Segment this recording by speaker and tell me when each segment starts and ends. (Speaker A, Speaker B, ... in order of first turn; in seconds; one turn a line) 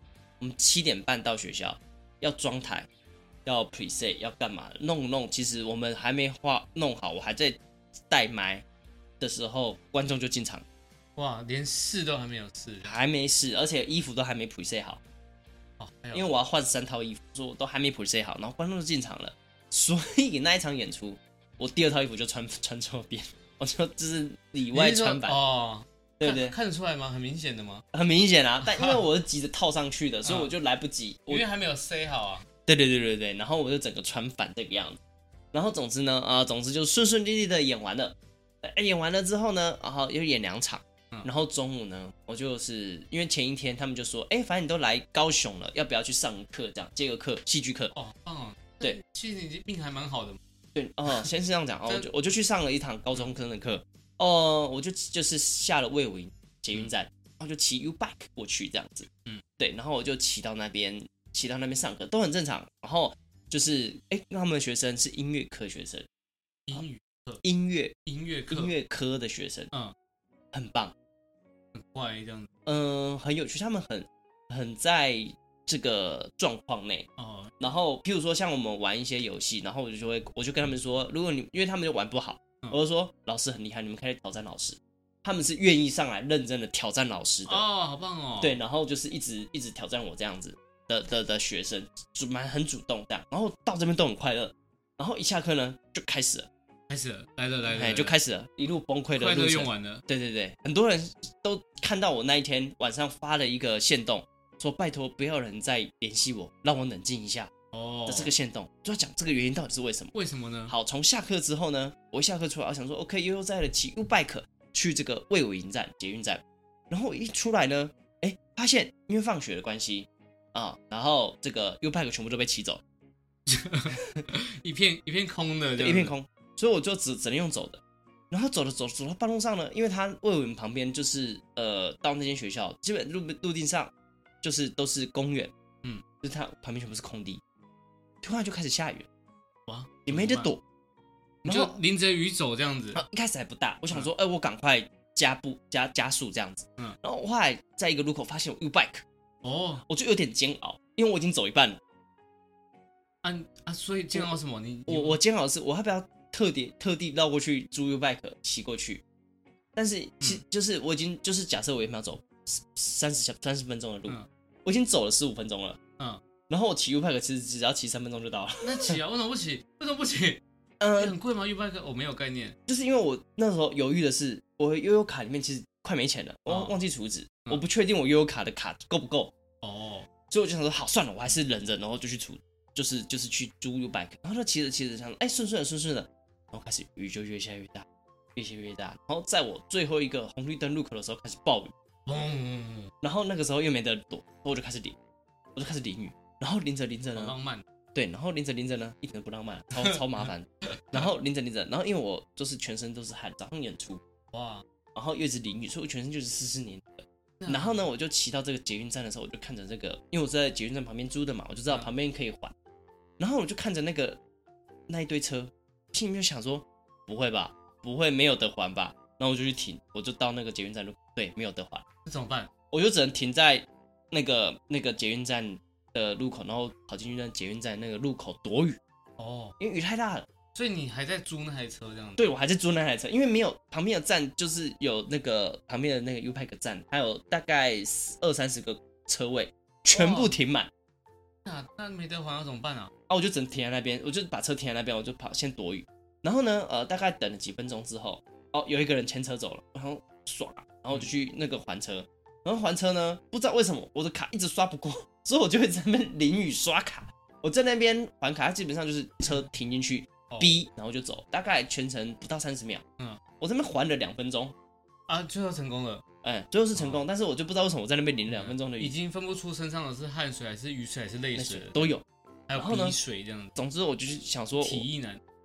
Speaker A: 0.4-2.9
Speaker A: 3.5-8.6
Speaker A: 9.2-10.7
Speaker B: 11.2-13.0
Speaker A: 12.8-15.0
Speaker B: 15.8-16.3
Speaker A: 16.1-25.4
Speaker B: 24.7-27.9
Speaker A: 26.2-26.6
Speaker A: 27.9-31.5
Speaker B: 28.7-29.0
Speaker B: 30.2-30.5
Speaker B: 31.3-32.5
Speaker A: 32.7-35.0
Speaker A: 35.5-47.9
Speaker B: 47.9-50.4
Speaker A: 50.8-66.1
Speaker B: 66.7-67.4
Speaker A: 67.4-68.0
Speaker B: 68.0-68.7
Speaker A: 68.5-69.7
Speaker A: 70.5-70.9
Speaker B: 71.7-72.5
Speaker A: 72.7-77.1
Speaker B: 77.2-77.5
Speaker A: 77.6-87.7
Speaker B: 87.5-88.6
Speaker A: 88.4-96.5
Speaker B: 96.9-98.2
Speaker A: 97.7-107.5
Speaker B: 99.2-100.0
Speaker B: 107.7-108.3
Speaker A: 108.1-110.1
Speaker B: 110.1-110.8
Speaker A: 110.7-122.8
Speaker B: 123.5-126.1
Speaker A: 125.8-135.5
Speaker A: 136.2-137.4
Speaker A: 138.2-139.1
Speaker B: 139.7-140.5
Speaker A: 140.1-140.6
Speaker A: 141.4-141.8
Speaker B: 141.4-143.0
Speaker A: 142.9-149.1
Speaker B: 149.4-149.8
Speaker A: 149.9-151.8
Speaker B: 153.2-155.2
Speaker A: 154.9-159.0
Speaker A: 159.8-165.8
Speaker A: 166.5-169.0
Speaker B: 168.6-170.4
Speaker A: 170.8-171.2
Speaker B: 170.9-172.6
Speaker A: 172.7-179.3
Speaker B: 176.5-176.8
Speaker B: 179.6-180.1
Speaker A: 180.3-191.7
Speaker B: 192.1-192.9
Speaker A: 193.0-195.0
Speaker A: 195.6-197.3
Speaker B: 197.2-197.7
Speaker A: 197.9-204.0
Speaker B: 204.3-204.7
Speaker A: 204.9-212.5
Speaker B: 207.4-207.8
Speaker A: 213.2-214.2
Speaker A: 214.9-221.8
Speaker B: 222.1-222.5
Speaker A: 222.7-228.8
Speaker B: 229.2-229.6
Speaker A: 229.6-230.3
Speaker B: 230.5-232.3
Speaker A: 232.2-240.7
Speaker B: 239.9-240.3
Speaker B: 241.4-242.9
Speaker A: 243.1-262.8
Speaker B: 260.3-260.6
Speaker A: 263.4-264.6
Speaker B: 265.1-266.0
Speaker A: 266.2-268.9
Speaker B: 266.8-267.0
Speaker B: 268.3-271.9
Speaker A: 271.4-273.0
Speaker B: 272.5-273.6
Speaker A: 273.6-274.9
Speaker B: 274.6-275.2